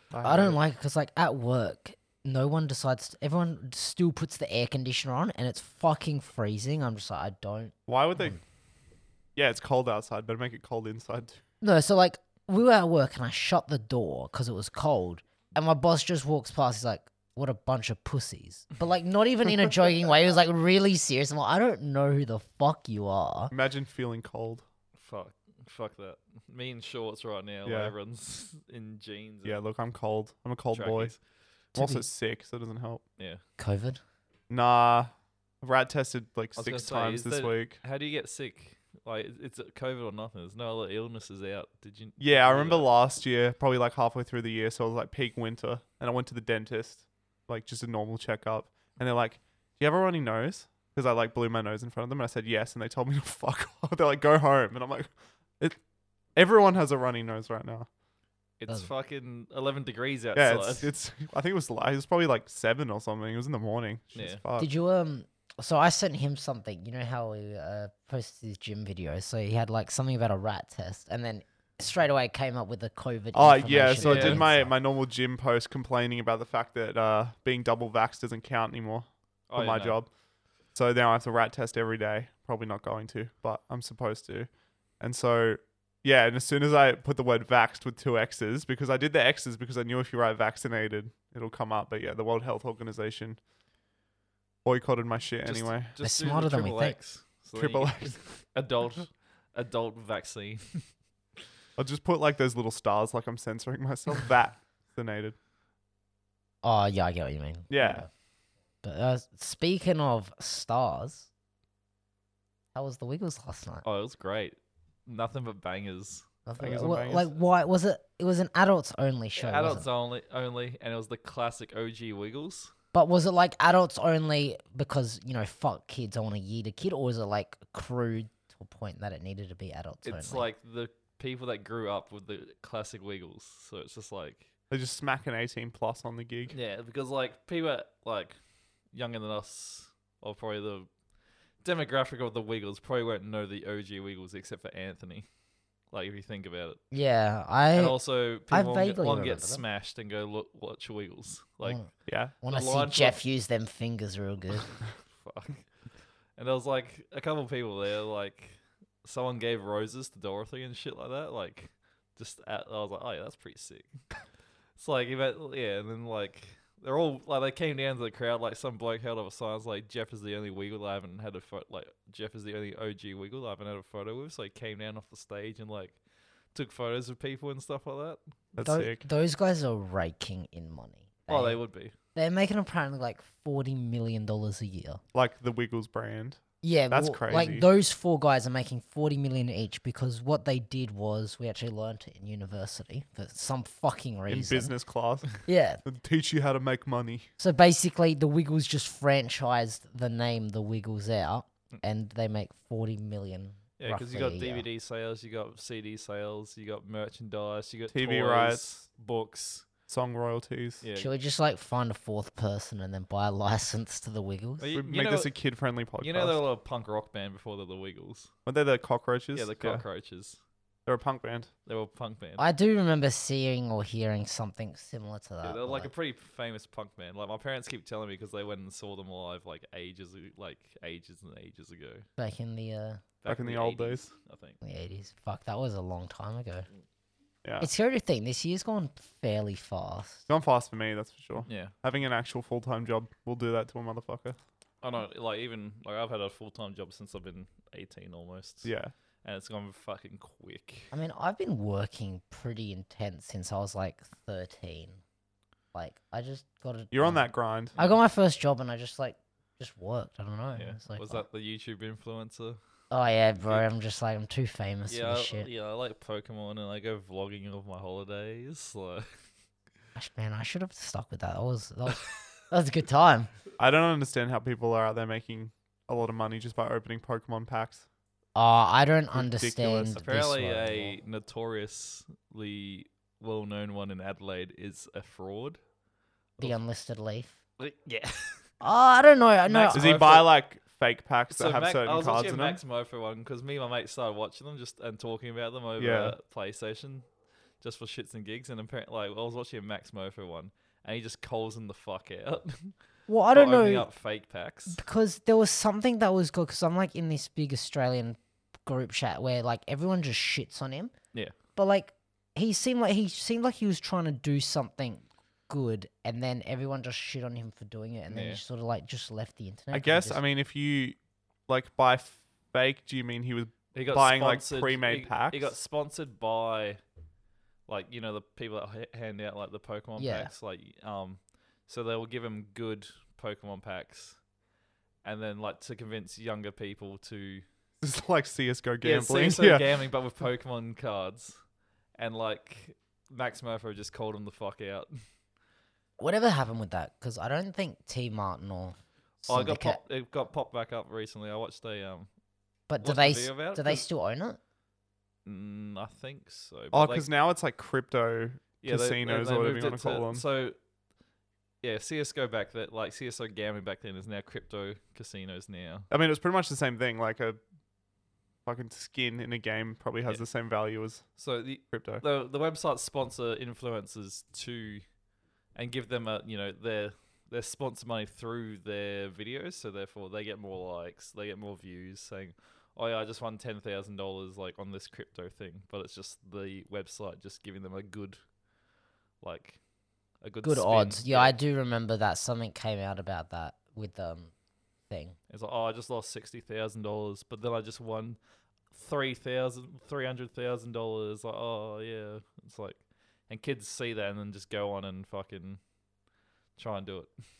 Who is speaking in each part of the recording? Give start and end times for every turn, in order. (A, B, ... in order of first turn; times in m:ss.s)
0:00.1-0:00.6 A
0:00.2-0:08.4 B
0:07.9-0:08.4 A
0:09.4-0:11.4 A
0:11.6-0:23.5 B
0:23.5-0:24.6 A
0:25.0-0:29.6 C
0:27.6-0:27.9 A
0:29.4-0:31.1 A
0:30.7-0:31.2 C
0:31.7-0:33.0 A
0:31.8-0:32.0 B
0:33.2-0:33.4 C
0:33.6-0:34.0 B
0:34.5-0:37.8 A
0:36.6-0:42.9 C
0:42.2-0:55.8 A
0:56.3-0:57.9 A
0:58.6-1:00.9 C
1:00.3-1:04.7 A
1:04.1-1:04.4 C
1:04.6-1:14.7 B
1:13.3-1:20.1 A
1:14.0-1:14.4 C
1:19.5-1:20.0 C
1:20.7-1:33.4 A
1:34.6-1:35.9 A
1:35.4-1:40.9 C
1:36.0-1:37.0 B
1:37.5-1:38.3 A
1:41.8-1:45.4 A
1:46.6-1:48.1 B
1:47.7-1:48.1 A
1:48.8-1:51.3 B
1:52.7-1:53.8 B
1:53.8-1:56.3 C
1:56.4-1:59.8 B
1:56.6-1:57.3 A
1:59.4-2:02.7 C
2:02.9-2:10.5 B
2:10.0-2:14.5 C
2:14.7-2:16.5 A
2:16.5-2:18.3 C
2:18.9-2:20.9 C
2:21.6-2:25.3 C
2:25.9-2:26.8 C
2:26.9-2:29.6 B
2:27.7-2:31.8 C
2:31.6-2:34.8 B
2:32.1-2:32.3 A
2:32.4-2:33.2 C
2:35.1-2:35.7 C
2:36.4-2:44.1 C
2:44.8-2:56.0 C
2:56.5-2:58.2 C
2:58.6-2:59.0 A
2:58.6-3:01.6 B
3:01.3-3:01.9 C
3:02.1-3:05.0 B
3:05.1-3:07.7 A
3:06.6-3:14.7 B
3:14.3-3:17.3 A
3:15.4-3:15.8 B
3:17.4-3:24.6 B
3:23.8-3:29.7 C
3:27.9-3:28.8 A
3:29.9-3:30.8 A
3:30.8-3:31.1 C
3:31.0-3:34.6 B
3:34.6-3:35.3 C
3:34.7-3:36.4 A
3:36.0-3:38.3 C
3:38.4-3:39.8 A
3:39.3-3:40.4 C
3:40.8-3:41.5 A
3:41.6-3:42.4 C
3:42.4-3:45.9 B
3:45.4-3:52.0 C
3:52.2-3:53.0 B
3:53.2-3:54.6 C
3:53.3-3:54.0 A
3:54.6-3:56.7 B
3:57.4-3:57.7 A
3:57.6-4:00.2 B
4:00.3-4:04.4 A
4:01.4-4:01.7 C
4:04.8-4:08.7 C
4:08.6-4:08.9 A
4:09.2-4:10.9 C
4:10.9-4:15.0 B
4:15.7-4:17.2 B
4:16.9-4:17.8 A
4:17.8-4:21.2 B
4:20.6-4:22.6 C
4:22.9-4:25.5 B
4:23.4-4:23.6 C
4:24.9-4:29.1 C
4:30.0-4:33.3 B
4:33.6-4:37.8 A
4:38.3-4:41.0 B
4:39.1-4:40.0 A
4:39.9-4:45.6 C
4:46.4-4:47.4 B
4:47.6-4:48.4 C
4:48.6-4:50.0 B
4:49.4-4:50.3 C
4:49.7-4:52.6 A
4:51.3-4:57.1 C
4:55.8-4:56.1 A
4:57.6-5:02.7 C
5:03.1-5:03.9 B
5:03.3-5:04.8 C
5:04.7-5:10.9 B
5:11.6-5:20.2 B
5:18.1-5:18.4 C
5:19.7-5:21.0 A
5:21.5-5:25.5 A
5:23.7-5:26.8 C
5:27.7-5:34.2 C
5:30.0-5:30.3 B
5:35.0-5:37.4 C
5:37.8-5:39.7 A
5:38.8-5:41.4 C
5:42.0-5:44.9 C
5:46.0-5:49.8 B
5:49.2-5:52.1 C
5:52.7-5:54.4 B
5:52.8-5:53.8 C
5:55.2-5:57.0 C
5:56.7-6:00.2 A
5:58.6-6:00.6 C
6:01.6-6:05.9 C
6:05.9-6:07.4 A
6:08.4-6:11.1 A
6:11.2-6:14.8 C
6:11.7-6:12.0 A
6:15.5-6:28.2 C
6:29.2-6:29.6 C
6:30.2-6:31.4 C
6:30.4-6:34.3 B
6:34.9-6:35.2 B
6:35.3-6:38.2 C
6:38.7-6:45.6 C
6:46.6-6:47.1 C